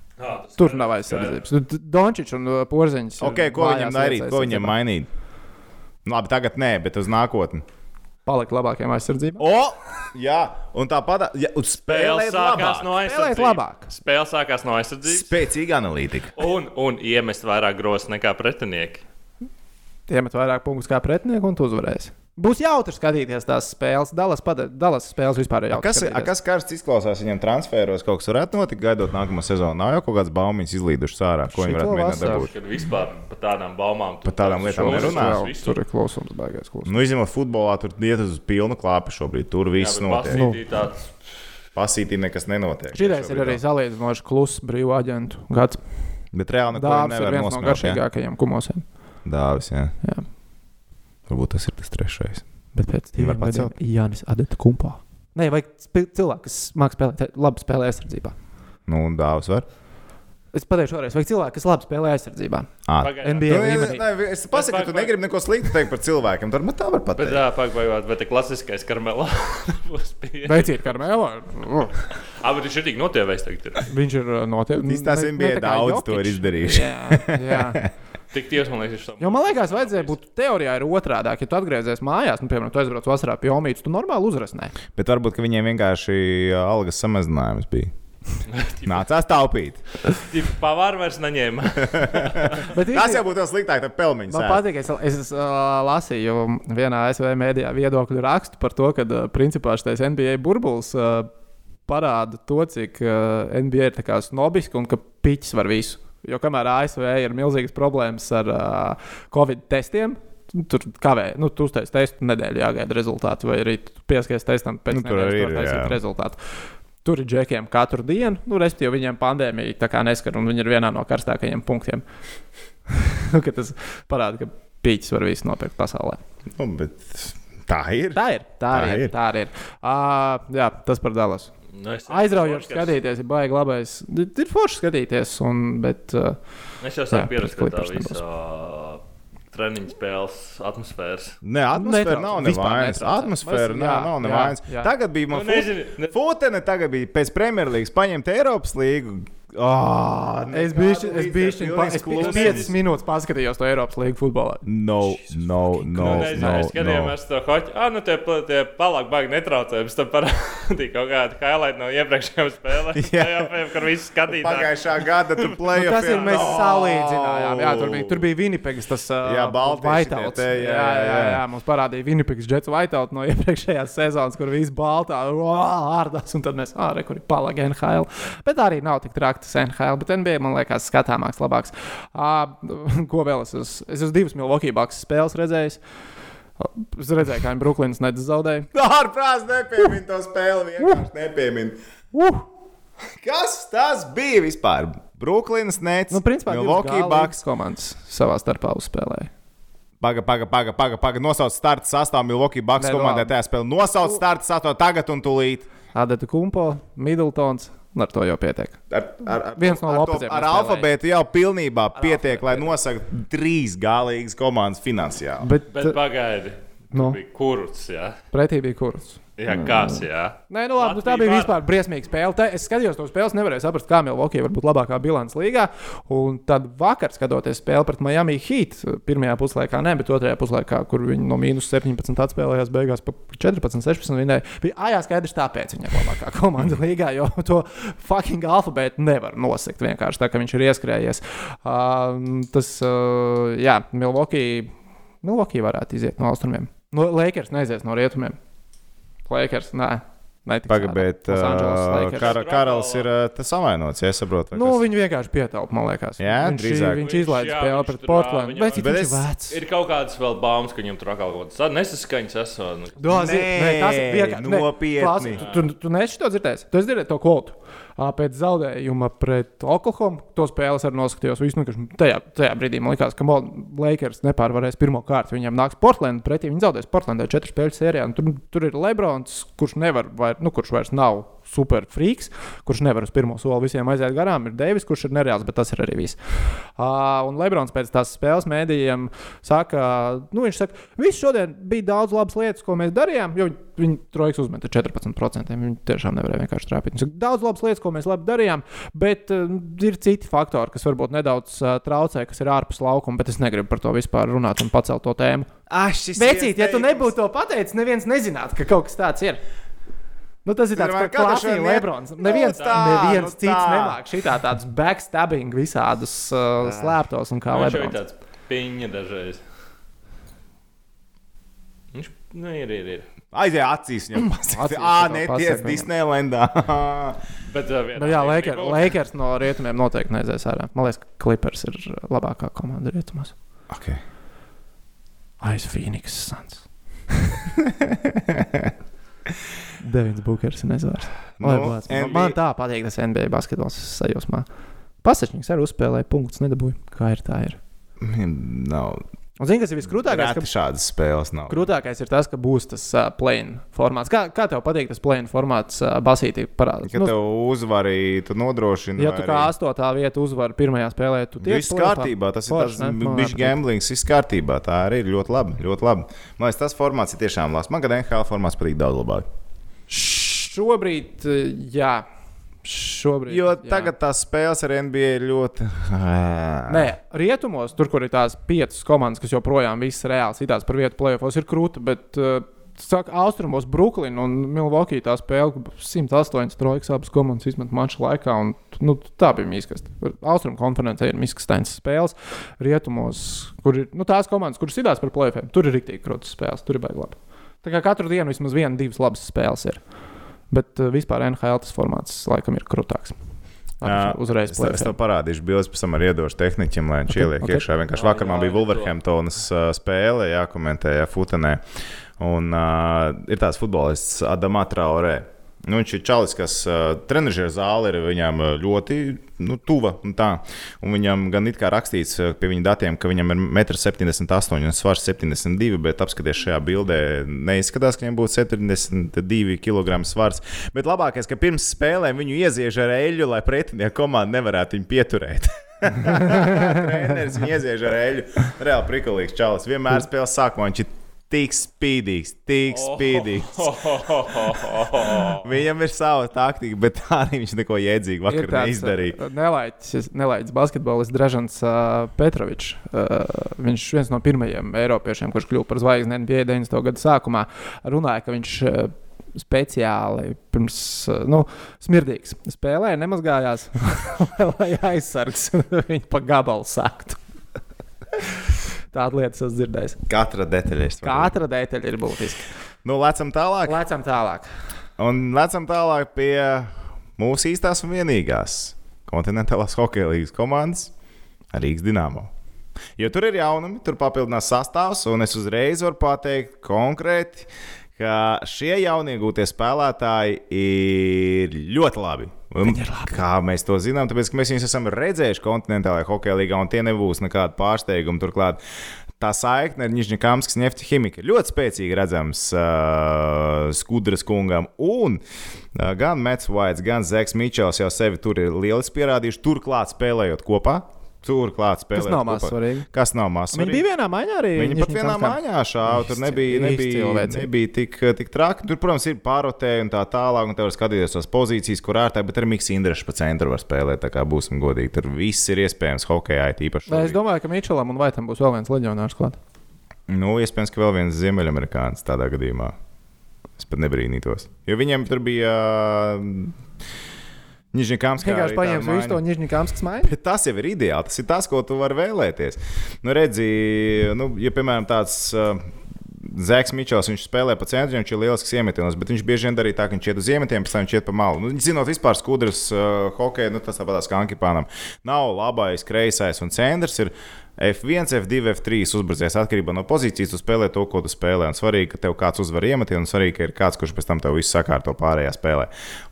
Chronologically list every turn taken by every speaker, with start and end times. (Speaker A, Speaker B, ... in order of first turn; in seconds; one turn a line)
Speaker A: 0.2-1.4
Speaker B: 0.6-4.7
Speaker C: 3.2-5.1
Speaker C: 6.0-7.6
Speaker B: 8.2-9.4
Speaker C: 9.4-12.9
Speaker A: 11.9-15.4
Speaker B: 13.0-13.9
Speaker C: 15.0-16.3
Speaker A: 16.4-19.0
Speaker B: 20.1-26.3
Speaker C: 25.7-32.5
Speaker B: 31.5-32.5
Speaker A: 32.1-35.8
Speaker C: 34.2-35.4
Speaker B: 34.7-36.9
Speaker C: 36.9-40.4
Speaker A: 39.7-41.1
Speaker B: 40.3-40.6
Speaker C: 41.7-43.6
Speaker B: 42.9-45.8
Speaker C: 46.3-48.0
Speaker B: 46.7-48.9
Speaker C: 49.2-49.9
Speaker C: 51.3-52.4
Speaker B: 52.7-58.3
Speaker C: 53.2-53.7
Speaker C: 58.9-59.6
Speaker B: 60.5-64.0
Speaker C: 62.9-67.4
Speaker A: 63.0-64.0
Speaker A: 64.5-65.2
Speaker A: 67.1-71.0
Speaker B: 70.4-72.0
Speaker A: 72.2-73.9
Speaker B: 73.9-77.8
Speaker C: 74.8-77.9
Speaker A: 78.3-80.2
Speaker B: 79.2-84.7
Speaker C: 84.9-87.9
Speaker A: 88.5-89.0
Speaker C: 88.8-89.8
Speaker A: 90.0-92.7
Speaker C: 91.9-94.6
Speaker B: 92.6-93.2
Speaker B: 94.3-101.3
Speaker B: 101.9-116.4
Speaker C: 114.9-116.0
Speaker B: 117.0-122.0
Speaker B: 122.9-126.2
Speaker C: 126.5-128.2
Speaker B: 128.1-131.5
Speaker C: 128.7-129.1
Speaker A: 131.7-132.9
Speaker B: 132.1-136.4
Speaker A: 136.8-141.4
Speaker B: 137.1-138.2
Speaker C: 141.4-152.7
Speaker B: 141.7-144.9
Speaker A: 145.3-146.1
Speaker B: 150.5-154.6
Speaker A: 152.1-152.7
Speaker C: 154.6-157.1
Speaker B: 155.8-156.7
Speaker A: 155.9-166.3
Speaker C: 162.9-163.5
Speaker C: 164.3-168.2
Speaker B: 165.7-185.8
Speaker C: 169.2-171.4
Speaker B: 186.6-188.7
Speaker C: 188.7-191.8
Speaker B: 192.1-192.5
Speaker C: 193.2-197.4
Speaker B: 196.1-199.3
Speaker C: 200.0-205.7
Speaker B: 202.8-203.3
Speaker B: 205.9-208.8
Speaker C: 208.9-215.5
Speaker B: 209.5-210.9
Speaker B: 212.0-212.7
Speaker B: 215.4-216.0
Speaker A: 215.7-218.2
Speaker B: 216.9-217.2
Speaker B: 218.3-248.4
Speaker A: 219.4-221.6
Speaker B: 249.2-252.3
Speaker C: 250.7-254.8
Speaker A: 252.1-253.1
Speaker B: 254.5-259.6
Speaker C: 256.2-257.0
Speaker A: 257.0-263.0
Speaker C: 258.8-259.3
Speaker B: 263.0-286.2
Speaker C: 263.1-265.4
Speaker A: 265.3-265.6
Speaker B: 286.8-305.5
Speaker C: 305.7-307.1
Speaker B: 306.1-309.4
Speaker B: 310.4-318.0
Speaker C: 310.8-314.0
Speaker C: 316.6-316.9
Speaker A: 317.5-319.4
Speaker A: 321.9-323.1
Speaker C: 323.3-327.2
Speaker B: 324.1-325.9
Speaker A: 327.5-329.0
Speaker B: 328.0-333.3
Speaker C: 333.7-334.0
Speaker B: 335.4-337.4
Speaker C: 337.6-338.7
Speaker B: 339.8-344.5
Speaker C: 341.4-342.4
Speaker B: 345.0-347.6
Speaker C: 348.0-349.0
Speaker B: 349.4-350.5
Speaker C: 349.9-351.7
Speaker B: 351.5-357.1
Speaker C: 356.9-359.5
Speaker B: 359.0-363.6
Speaker C: 361.4-369.2
Speaker B: 369.9-372.0
Speaker B: 372.6-373.9
Speaker C: 373.3-376.9
Speaker B: 376.7-399.9
Speaker B: 400.5-403.2
Speaker B: 403.8-404.9
Speaker C: 403.8-411.6
Speaker B: 407.1-407.6
Speaker A: 407.9-408.9
Speaker C: 412.2-443.8
Speaker B: 436.0-436.7
Speaker A: 442.7-445.5
Speaker C: 444.3-449.2
Speaker B: 448.3-467.2
Speaker B: 468.9-470.0
Speaker C: 470.1-471.3
Speaker B: 471.0-472.5
Speaker C: 472.8-473.8
Speaker B: 473.6-474.5
Speaker C: 475.0-480.9
Speaker C: 481.5-482.3
Speaker C: 483.0-498.6
Speaker B: 492.6-493.2
Speaker C: 499.2-505.2
Speaker C: 505.7-513.9
Speaker B: 511.9-512.9
Speaker B: 513.5-515.4
Speaker C: 514.6-527.2
Speaker B: 515.9-517.5
Speaker B: 526.9-529.4
Speaker C: 530.1-532.7
Speaker C: 533.6-536.5
Speaker C: 537.7-539.2
Speaker B: 538.2-540.1
Speaker C: 540.0-565.7